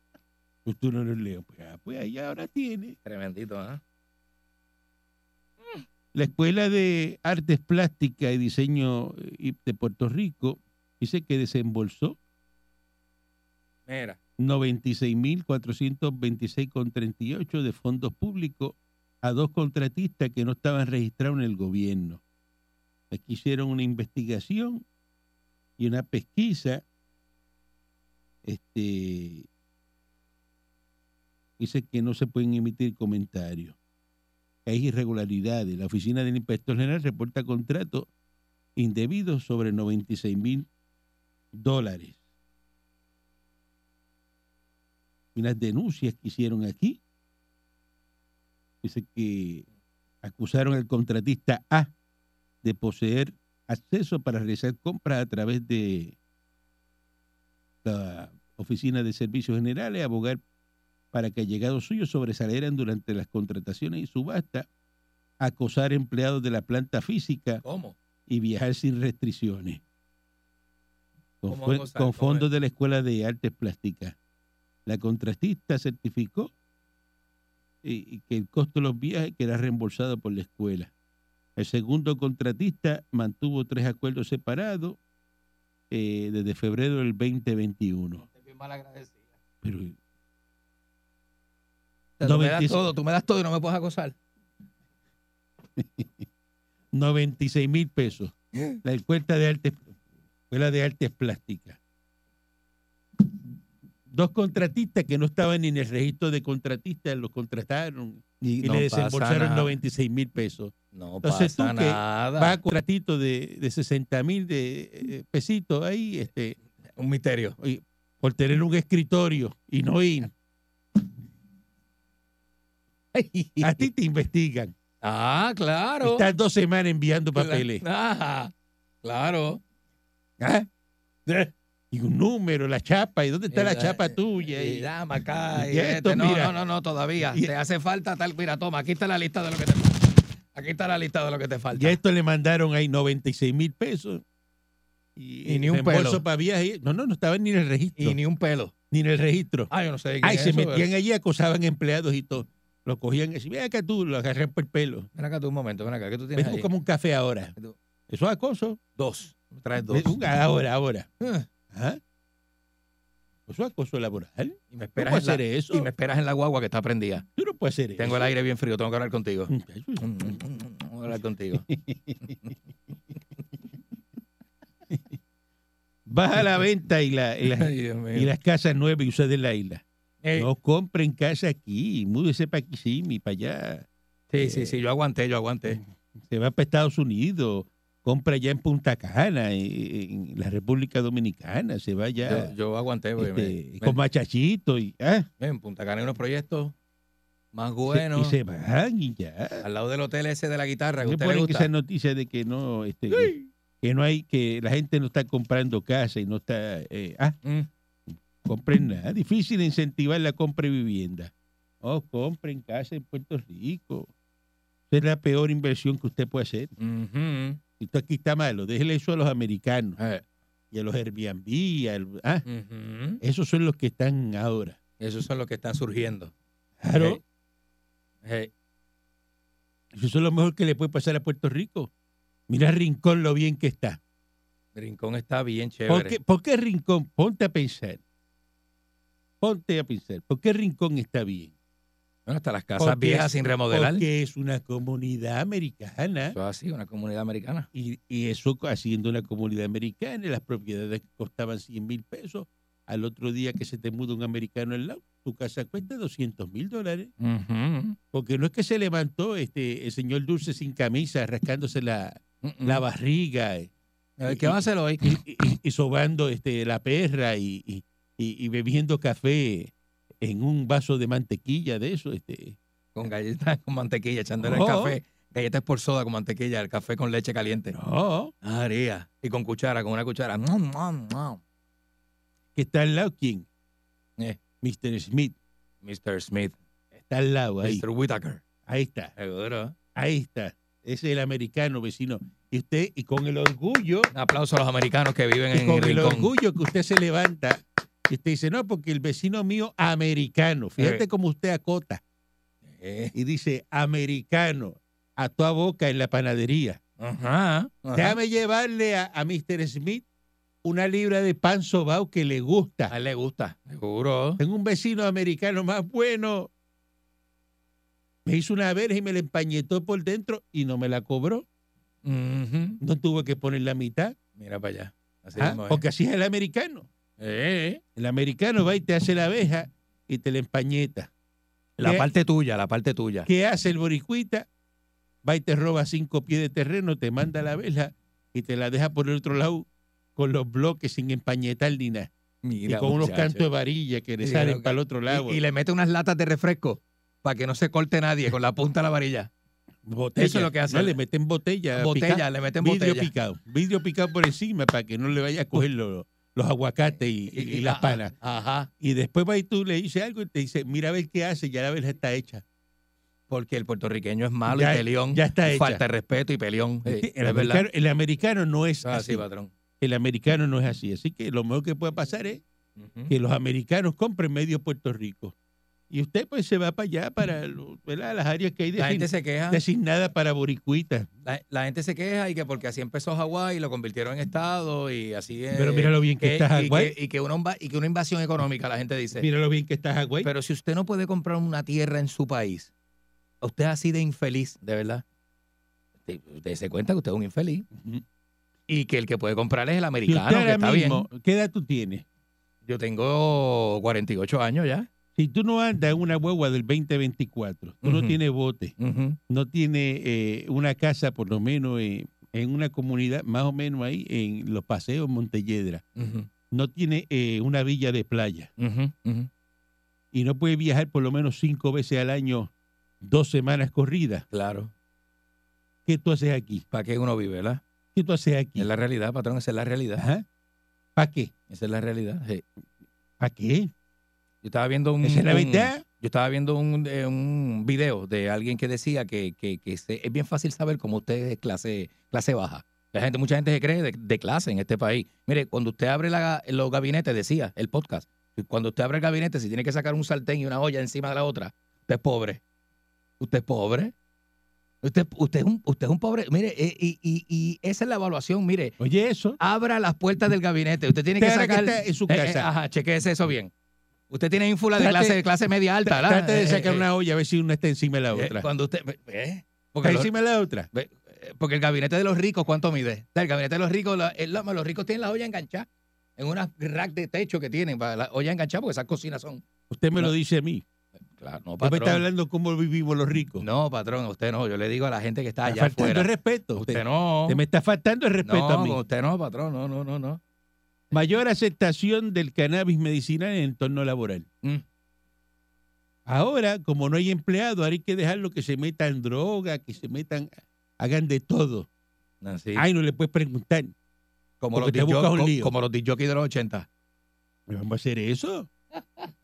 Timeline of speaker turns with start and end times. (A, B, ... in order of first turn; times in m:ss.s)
0:00.6-0:03.0 A
0:03.0-0:03.8 B
0:06.1-0:12.2 A
0:13.9-0:14.2 B
0:14.4-0:22.2 A
0:23.1-0:24.8 A
0:25.8-0:26.8 A
0:28.4-0:29.5 A
0:31.6-0:33.8 A
0:34.6-0:38.1 A
0:38.8-0:40.7 A
0:41.5-0:42.2 A
0:45.3-0:47.0 A
0:48.8-0:49.6 A
0:50.2-0:51.9 A
0:52.6-0:56.1 A
0:57.8-1:00.4 A
1:01.1-1:04.7 A
1:05.4-1:07.6 A
1:07.6-1:08.0 B
1:08.3-1:09.8 A
1:11.4-1:14.2 A
1:11.5-1:12.5 B
1:14.8-1:16.5 A
1:17.8-1:20.9 A
1:21.6-1:25.0 A
1:25.9-1:28.2 A
1:28.2-1:29.3 B
1:29.6-1:30.0 A
1:32.2-1:34.2 B
1:32.2-1:32.8 A
1:35.8-1:36.2 A
1:36.9-1:39.9 A
1:40.5-1:41.8 A
1:44.1-1:56.6 A
1:48.4-1:49.8 B
1:50.9-1:52.6 B
1:57.0-1:57.6 B
1:57.6-2:00.3 A
2:03.1-2:03.9 B
2:03.6-2:04.7 A
2:05.0-2:06.3 B
2:06.0-2:07.8 A
2:07.3-2:08.5 B
2:09.0-2:09.6 B
2:10.4-2:10.7 A
2:11.2-2:14.9 A
2:13.5-2:22.0 B
2:15.5-2:16.6 A
2:17.2-2:17.5 A
2:21.7-2:24.2 A
2:25.2-2:28.2 A
2:25.4-2:26.2 B
2:28.0-2:28.7 B
2:28.9-2:29.7 A
2:29.7-2:30.9 B
2:30.2-2:35.1 A
2:35.1-2:36.7 B
2:36.3-2:37.5 A
2:38.1-2:38.8 A
2:39.0-2:40.2 B
2:39.9-2:41.1 A
2:41.2-2:41.4 B
2:41.7-2:42.0 A
2:43.5-2:45.9 A
2:44.7-2:47.2 B
2:47.4-2:48.3 A
2:48.0-2:51.7 B
2:49.5-2:50.4 A
2:51.5-2:52.5 A
2:56.1-2:59.8 A
2:57.5-2:58.3 B
3:00.2-3:00.5 B
3:00.4-3:03.9 A
3:04.3-3:05.8 B
3:04.4-3:04.8 A
3:05.7-3:12.5 A
3:12.2-3:14.0 B
3:13.2-3:15.3 A
3:15.4-3:16.7 B
3:17.5-3:18.4 B
3:17.9-3:19.6 A
3:19.6-3:21.7 B
3:21.0-3:27.4 A
3:23.1-3:23.4 B
3:28.4-3:34.1 A
3:34.9-3:36.7 A
3:36.8-3:37.6 B
3:37.8-3:40.0 A
3:40.0-3:40.2 B
3:40.7-3:42.4 A
3:42.4-3:43.2 B
3:43.2-3:44.8 A
3:45.0-3:46.3 B
3:46.8-3:47.2 A
3:46.9-3:47.2 B
3:48.2-3:48.5 B
3:49.9-3:51.9 A
3:52.5-3:54.0 A
3:54.7-3:56.1 B
3:55.9-3:58.0 A
3:59.4-4:01.5 A
4:02.3-4:04.0 B
4:02.8-4:06.4 A
4:06.3-4:07.7 B
4:07.7-4:17.1 A
4:17.2-4:18.0 B
4:18.1-4:23.7 A
4:22.4-4:22.8 B
4:24.2-4:25.2 B
4:24.2-4:32.6 A
4:32.9-4:37.8 B
4:34.4-4:35.0 A
4:37.7-4:38.3 A
4:38.4-4:41.4 B
4:42.5-4:43.4 A
4:44.6-4:45.4 A
4:45.8-4:46.5 B
4:46.9-4:47.8 A
4:47.6-4:48.4 B
4:48.7-4:49.1 A
4:49.2-4:49.7 B
4:49.9-4:54.1 A
4:54.1-4:56.3 B
4:55.5-5:02.0 A
5:00.8-5:01.0 B
5:02.7-5:03.1 B
5:03.1-5:06.8 A
5:07.0-5:08.2 B
5:07.9-5:10.0 A
5:10.6-5:12.9 A
5:12.9-5:14.4 B
5:14.4-5:16.5 A
5:18.2-5:21.4 A
5:22.0-5:22.8 B
5:22.8-5:24.1 A
5:24.4-5:25.8 B
5:25.4-5:26.9 A
5:27.2-5:27.8 B
5:28.0-5:31.1 A
5:31.8-5:32.1 A
5:31.8-5:33.3 B
5:33.2-5:34.4 A
5:35.2-5:42.1 A
5:42.4-5:43.4 B
5:42.7-5:45.4 A
5:44.2-5:49.3 B
5:49.8-5:58.1 A
5:50.2-5:51.0 B
5:51.7-5:53.1 B
5:57.3-5:58.7 B
5:58.8-6:02.4 A
6:03.3-6:07.6 B
6:04.5-6:05.8 A
6:06.8-6:09.2 A
6:08.8-6:09.5 B
6:09.8-6:12.4 A
6:12.8-6:13.1 B
6:13.1-6:15.3 A
6:15.9-6:21.1 A
6:18.8-6:19.6 B
6:21.2-6:29.3 B
6:25.5-6:27.0 A
6:29.2-6:30.3 A
6:30.2-6:32.7 B
6:33.4-6:35.0 B
6:36.0-6:37.6 B
6:37.7-6:38.0 A
6:38.7-6:41.1 B
6:40.0-6:42.0 A
6:42.6-6:44.9 B
6:45.2-6:48.7 A
6:47.8-6:48.2 B
6:48.8-6:49.2 B
6:49.3-6:55.8 A
6:56.0-6:56.3 B
6:56.5-6:58.5 A
6:58.6-6:59.3 B
7:00.1-7:02.5 A
7:03.0-7:04.2 A
7:04.3-7:04.7 B
7:05.8-7:06.6 A
7:06.7-7:07.6 B
7:07.9-7:08.7 A
7:08.6-7:10.0 B
7:10.0-7:10.2 A
7:11.0-7:11.3 A
7:11.5-7:12.4 B
7:13.2-7:13.7 A
7:14.4-7:32.4 B
7:15.0-7:15.8 A
7:33.2-7:33.9 B
7:34.8-7:38.8 B
7:38.8-7:39.4 A
7:39.4-7:43.5 B
7:41.2-7:42.5 A
7:44.1-7:46.8 B
7:44.8-7:45.2 A
7:45.8-7:48.5 A
7:48.1-7:50.1 B
7:49.8-7:50.7 A
7:50.7-7:59.4 B
7:59.7-8:00.6 A
8:01.2-8:02.0 B
8:01.6-8:03.4 A
8:03.4-8:07.4 B
8:05.4-8:08.8 A
8:08.2-8:10.2 B
8:10.9-8:14.3 A
8:16.0-8:21.7 A
8:22.2-8:22.6 B
8:22.6-8:23.7 A
8:24.4-8:26.7 B
8:24.5-8:25.5 A
8:27.5-8:28.5 A